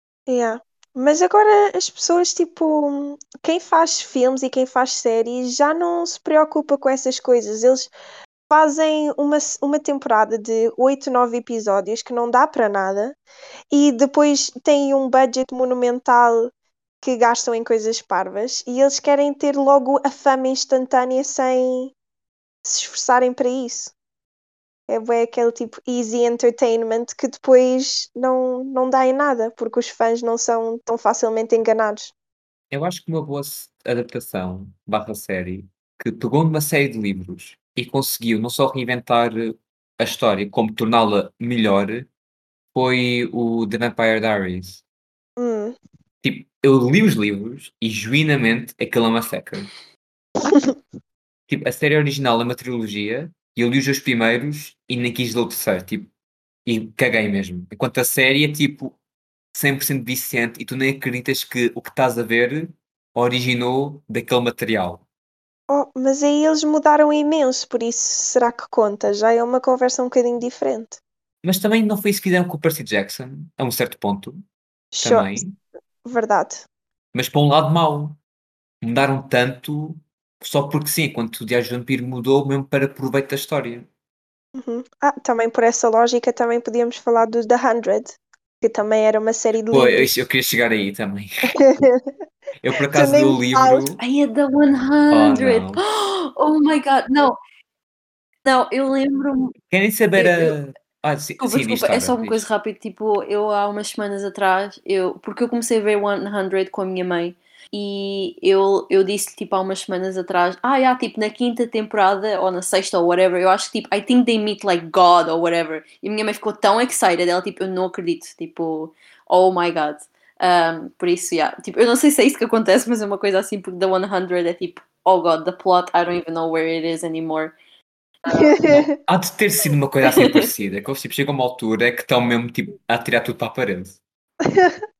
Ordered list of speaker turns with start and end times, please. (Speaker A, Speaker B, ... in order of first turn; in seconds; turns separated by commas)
Speaker A: 0.3-7.9, Speaker A: 8.5-13.2, Speaker A: 13.7-21.9, Speaker A: 22.6-23.9, Speaker A: 24.9-32.1, Speaker B: 32.7-42.1, Speaker B: 42.7-44.8, Speaker A: 45.4-45.8, Speaker B: 46.2-49.7, Speaker A: 50.4-50.8, Speaker B: 51.5-56.1, Speaker B: 56.6-59.0, Speaker B: 59.5-65.0, Speaker A: 65.7-71.0, Speaker B: 71.4-74.4, Speaker A: 74.9-75.3, Speaker B: 75.0-75.6, Speaker A: 76.0-76.6, Speaker B: 77.1-78.2, Speaker B: 78.8-83.9, Speaker A: 84.5-90.2, Speaker B: 89.7-91.5, Speaker A: 91.5-92.1, Speaker B: 92.6-94.0, Speaker A: 92.9-93.8, Speaker C: 94.0-97.4, Speaker B: 95.1-95.8, Speaker C: 98.4-99.5, Speaker B: 99.7-102.4, Speaker C: 100.2-100.5, Speaker C: 101.4-127.5, Speaker C: 128.2-128.6, Speaker A: 128.3-128.8, Speaker B: 128.7-134.0, Speaker A: 134.4-134.8